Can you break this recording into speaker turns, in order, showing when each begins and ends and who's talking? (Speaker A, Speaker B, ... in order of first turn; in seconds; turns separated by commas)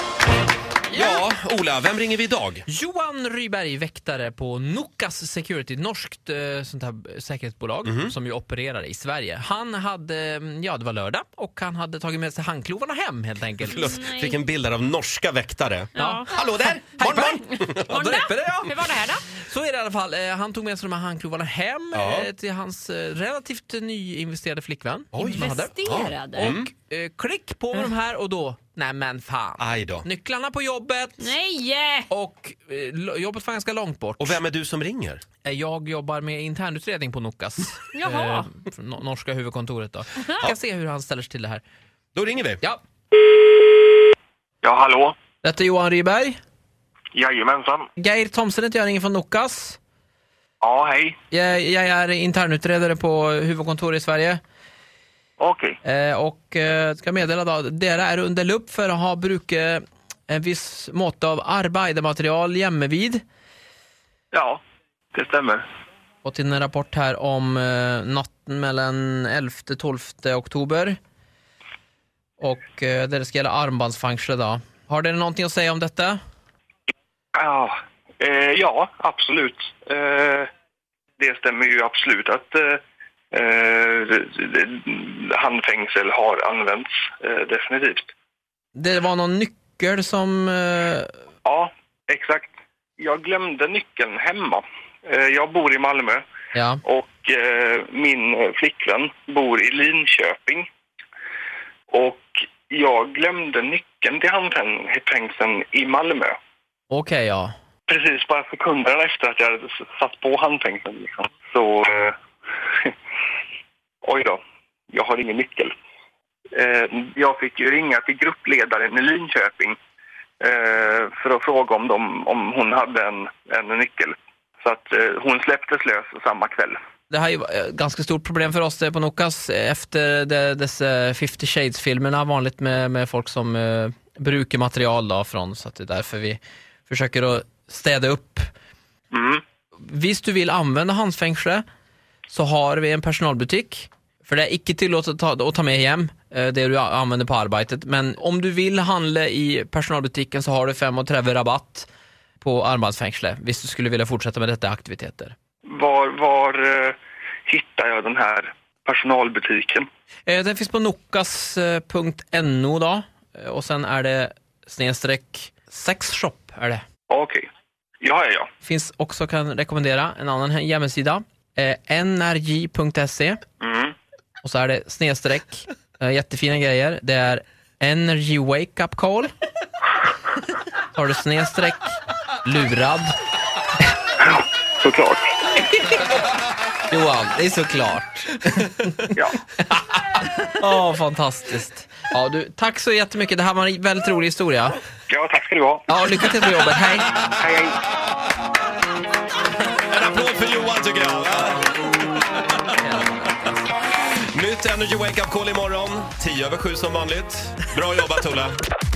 Speaker A: 0.9-1.2, Speaker B: 0.9-2.6, Speaker A: 2.7-13.8, Speaker B: 7.8-8.1, Speaker B: 13.6-18.1, Speaker C: 13.8-14.3, Speaker C: 15.9-16.3, Speaker A: 15.9-31.4, Speaker C: 17.8-19.3, Speaker B: 21.9-22.3, Speaker B: 25.1-26.7, Speaker C: 25.2-26.5, Speaker B: 29.6-30.1, Speaker C: 31.2-32.1, Speaker A: 32.1-34.4, Speaker B: 34.2-35.2, Speaker A: 35.4-41.6, Speaker C: 37.9-38.5, Speaker B: 42.1-42.6, Speaker D: 44.6-45.1, Speaker A: 45.4-46.4, Speaker D: 47.1-47.9, Speaker A: 48.0-49.8, Speaker D: 50.6-51.2, Speaker A: 51.3-54.4, Speaker D: 55.4-55.8, Speaker A: 55.8-63.2, Speaker D: 64.3-64.6, Speaker D: 65.1-65.6, Speaker A: 66.2-71.0, Speaker A: 72.4-76.2, Speaker D: 77.3-80.5, Speaker D: 81.2-82.8, Speaker D: 83.3-88.1, Speaker A: 88.8-91.1, Speaker D: 91.4-96.2, Speaker A: 96.5-96.8, Speaker D: 96.8-100.7, Speaker D: 101.9-106.3, Speaker A: 106.9-107.5, Speaker D: 107.9-112.9, Speaker D: 114.0-114.4, Speaker D: 114.9-115.7, Speaker D: 116.5-119.8, Speaker D: 120.4-126.8, Speaker A: 127.1-138.5, Speaker D: 139.1-139.4, Speaker A: 139.8-141.6, Speaker A: 142.3-151.9, Speaker A: 152.4-155.3, Speaker D: 155.7-159.9, Speaker A: 160.3-166.8, Speaker D: 167.1-167.4, Speaker D: 168.0-168.5, Speaker A: 168.6-173.4, Speaker D: 173.6-173.9, Speaker A: 174.4-179.3, Speaker A: 180.9-183.1, Speaker D: 184.2-185.3, Speaker A: 186.9-189.0, Speaker A: 189.7-190.0, Speaker A: 190.6-194.8, Speaker D: 195.1-195.9, Speaker A: 195.9-197.1, Speaker D: 197.4-197.8, Speaker B: 199.8-201.7, Speaker A: 202.8-203.5, Speaker B: 204.3-208.6